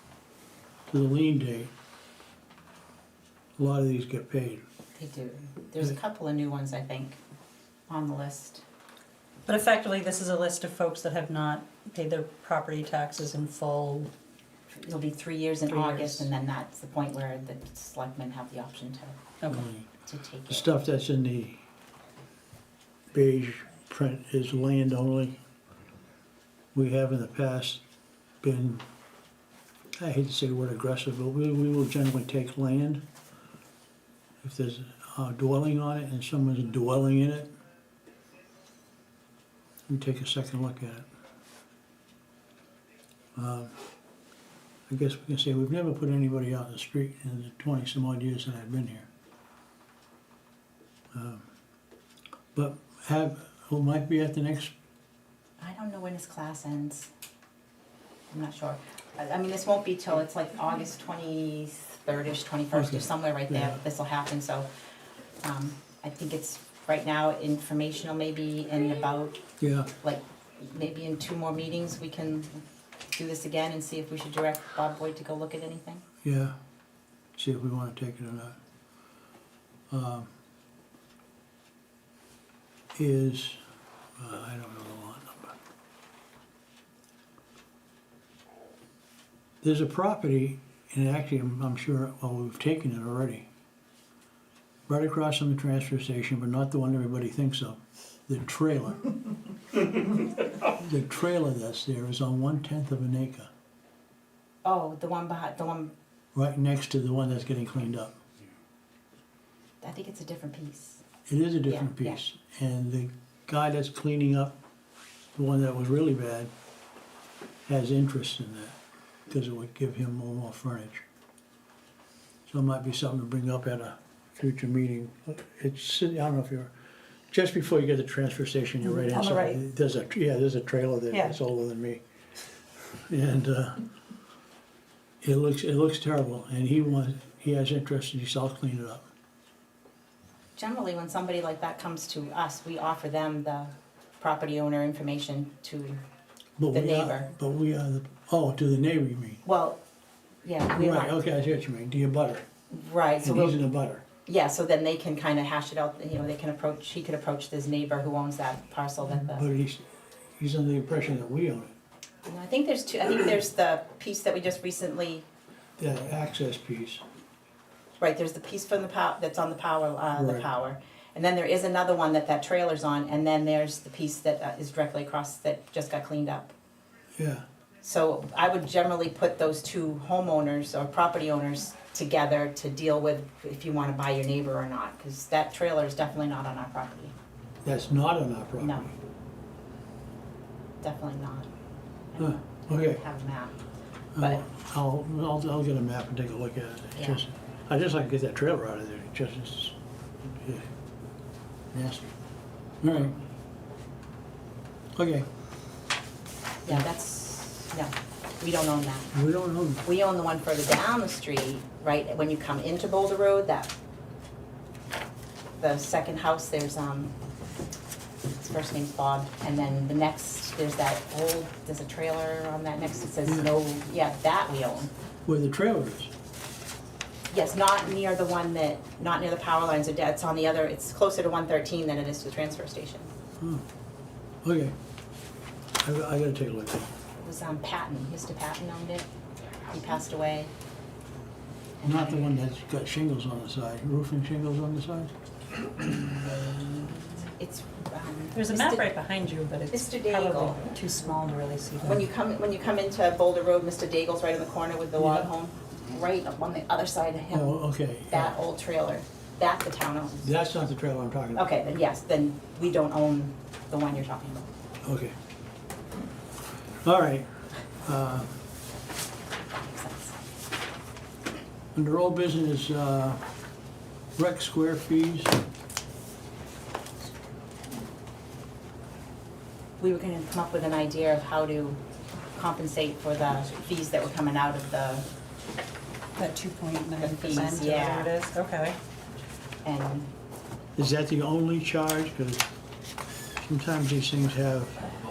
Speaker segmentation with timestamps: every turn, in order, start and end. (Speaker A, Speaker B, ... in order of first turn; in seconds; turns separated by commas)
Speaker A: 0.9-1.7, Speaker A: 3.6-4.6, Speaker B: 5.0-7.2, Speaker B: 7.9-8.6, Speaker C: 9.5-14.1, Speaker B: 14.7-19.3, Speaker C: 15.7-16.3, Speaker A: 19.5-19.9, Speaker B: 20.0-20.7, Speaker A: 20.5-21.6, Speaker A: 23.1-25.4, Speaker A: 26.7-27.8, Speaker A: 28.4-28.8, Speaker A: 30.0-33.0, Speaker A: 34.4-37.5, Speaker A: 39.9-41.1, Speaker A: 43.4-43.8, Speaker A: 44.9-49.1, Speaker A: 51.1-51.5, Speaker A: 52.5-54.7, Speaker B: 55.6-57.1, Speaker B: 58.3-64.7, Speaker A: 62.7-63.8, Speaker B: 65.4-69.4, Speaker A: 69.6-69.9, Speaker B: 70.0-76.0, Speaker A: 76.2-76.6, Speaker A: 77.4-78.6, Speaker A: 79.9-80.3, Speaker A: 83.0-83.6, Speaker A: 84.2-85.6, Speaker A: 89.6-93.5, Speaker A: 94.9-99.1, Speaker A: 100.7-103.5, Speaker B: 104.6-105.9, Speaker A: 106.3-108.2, Speaker B: 109.8-111.0, Speaker A: 111.3-114.6, Speaker B: 111.7-112.2, Speaker A: 115.4-116.5, Speaker A: 117.7-118.8, Speaker A: 119.3-121.0, Speaker A: 122.5-126.7, Speaker A: 127.3-132.0, Speaker C: 128.9-129.6, Speaker C: 131.1-131.4, Speaker A: 132.9-133.8, Speaker A: 135.2-139.1, Speaker B: 140.6-146.0, Speaker A: 146.6-149.4, Speaker B: 146.7-147.3, Speaker B: 149.4-149.8, Speaker B: 150.4-151.2, Speaker A: 150.7-152.4, Speaker B: 152.7-153.6, Speaker A: 153.2-154.0, Speaker B: 154.3-159.5, Speaker A: 159.1-161.7, Speaker B: 162.3-165.3, Speaker A: 165.8-167.0, Speaker B: 168.0-176.5, Speaker A: 170.2-170.4, Speaker A: 177.2-177.4, Speaker B: 177.8-187.1, Speaker A: 187.6-188.9, Speaker B: 188.6-188.9, Speaker B: 190.8-191.5, Speaker B: 192.1-193.6, Speaker A: 192.2-193.0, Speaker A: 194.2-200.7, Speaker B: 197.0-197.2, Speaker A: 201.7-202.1, Speaker A: 202.8-203.2, Speaker A: 205.0-205.3, Speaker B: 206.6-209.1, Speaker A: 209.1-209.8, Speaker B: 209.8-213.7, Speaker B: 215.6-217.2, Speaker B: 218.3-224.9, Speaker A: 225.3-226.1, Speaker B: 227.3-233.1, Speaker A: 233.4-233.7, Speaker A: 234.4-234.8, Speaker A: 235.8-236.9, Speaker B: 237.2-239.1, Speaker B: 239.7-240.5, Speaker B: 241.8-242.4, Speaker A: 241.8-245.1, Speaker B: 245.8-249.0, Speaker C: 248.3-252.1, Speaker B: 249.7-250.7, Speaker B: 251.8-260.3, Speaker A: 255.0-255.3, Speaker A: 257.3-258.4, Speaker A: 260.2-261.5, Speaker B: 261.3-264.5, Speaker A: 264.8-265.2, Speaker A: 266.8-267.3, Speaker A: 267.8-268.4, Speaker B: 269.6-270.2, Speaker A: 271.8-273.2, Speaker A: 274.2-275.4, Speaker B: 279.8-281.8, Speaker B: 282.4-285.1, Speaker C: 286.2-288.8, Speaker B: 287.0-288.1, Speaker B: 289.6-290.1, Speaker A: 290.8-292.5, Speaker A: 293.4-294.8